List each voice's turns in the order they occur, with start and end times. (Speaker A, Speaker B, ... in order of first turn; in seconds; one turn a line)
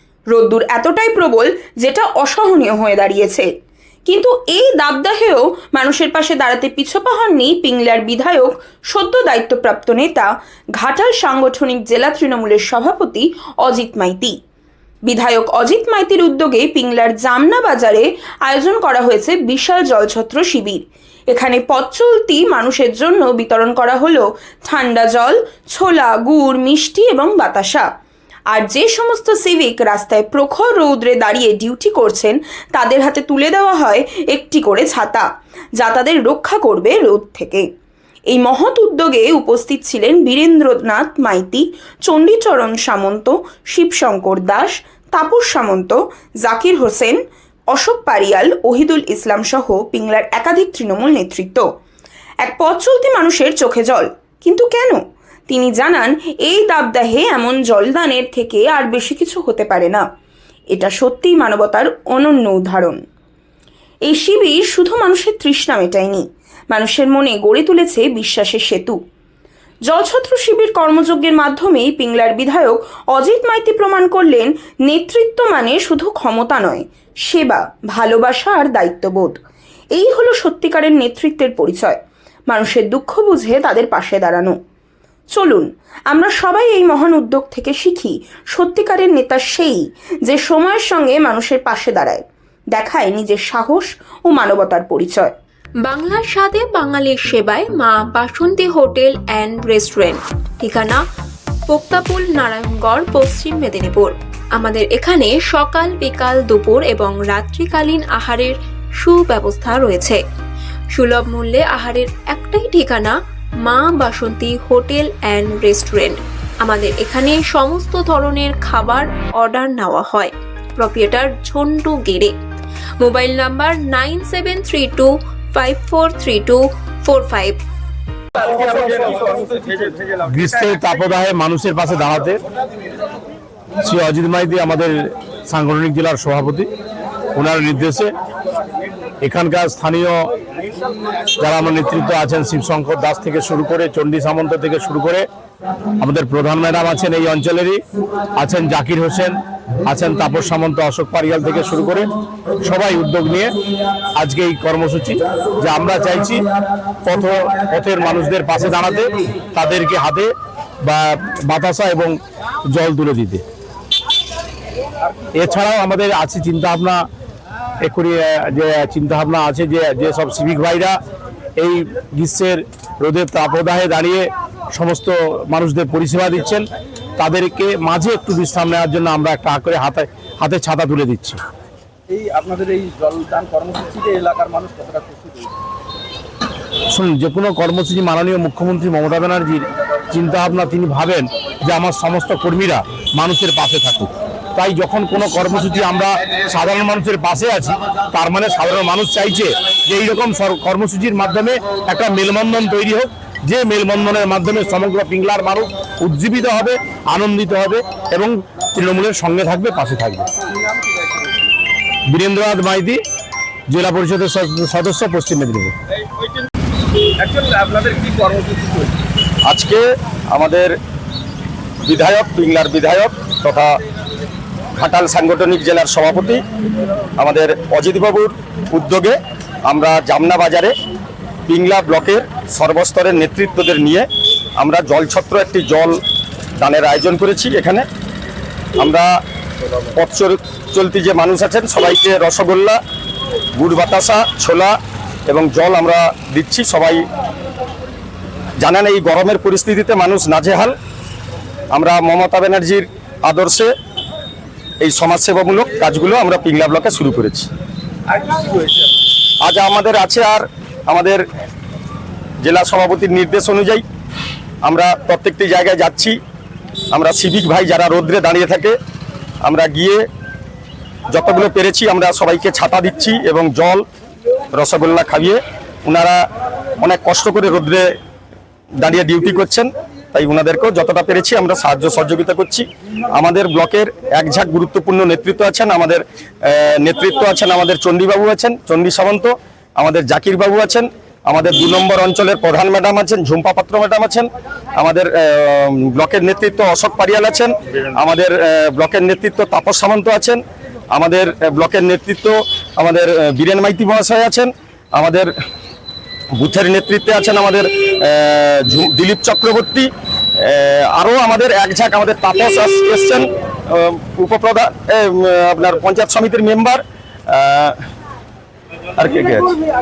Speaker A: 0.3-3.5
Speaker A: 4.1-14.4
Speaker A: 15.1-27.9
Speaker A: 28.5-35.3
Speaker A: 35.8-37.7
Speaker A: 38.3-47.2
Speaker A: 47.7-51.7
Speaker A: 52.4-60.0
Speaker A: 60.7-63.0
Speaker A: 64.1-69.0
Speaker A: 69.9-79.4
Speaker A: 80.0-84.6
Speaker A: 85.3-95.3
Speaker B: 95.9-101.0
Speaker B: 101.7-110.2
Speaker B: 111.0-122.3
Speaker B: 123.0-127.6
Speaker C: 128.3-130.7
Speaker D: 130.3-132.4
Speaker D: 133.8-136.7
Speaker D: 137.3-138.1
Speaker D: 139.2-140.2
Speaker D: 141.4-145.2
Speaker D: 146.0-147.8
Speaker D: 148.4-152.1
Speaker D: 152.6-153.5
Speaker D: 154.2-156.5
Speaker D: 157.0-160.3
Speaker D: 160.8-162.2
Speaker D: 162.7-163.4
Speaker E: 165.1-165.3
Speaker D: 165.3-167.1
Speaker D: 167.8-171.0
Speaker D: 171.6-176.7
Speaker D: 177.2-181.4
Speaker E: 182.1-185.5
Speaker D: 186.9-210.3
Speaker D: 212.1-213.0
Speaker D: 213.7-215.7
Speaker E: 217.2-218.9
Speaker C: 219.5-220.8
Speaker C: 221.8-223.8
Speaker C: 224.7-226.4
Speaker C: 227.2-230.7
Speaker C: 231.5-234.1
Speaker C: 234.6-236.0
Speaker C: 236.6-237.9
Speaker C: 238.8-239.1
Speaker C: 239.9-242.8
Speaker C: 243.6-244.8
Speaker C: 245.3-247.0
Speaker C: 248.6-250.8
Speaker C: 251.7-253.7
Speaker C: 254.8-257.5
Speaker E: 258.3-258.6
Speaker C: 259.4-261.2
Speaker C: 262.4-263.8
Speaker C: 264.6-266.2
Speaker C: 266.9-268.8
Speaker C: 269.4-270.0
Speaker C: 271.1-273.8
Speaker C: 274.5-276.2
Speaker C: 276.8-277.9
Speaker C: 278.8-305.3
Speaker C: 306.4-317.8
Speaker C: 319.0-319.6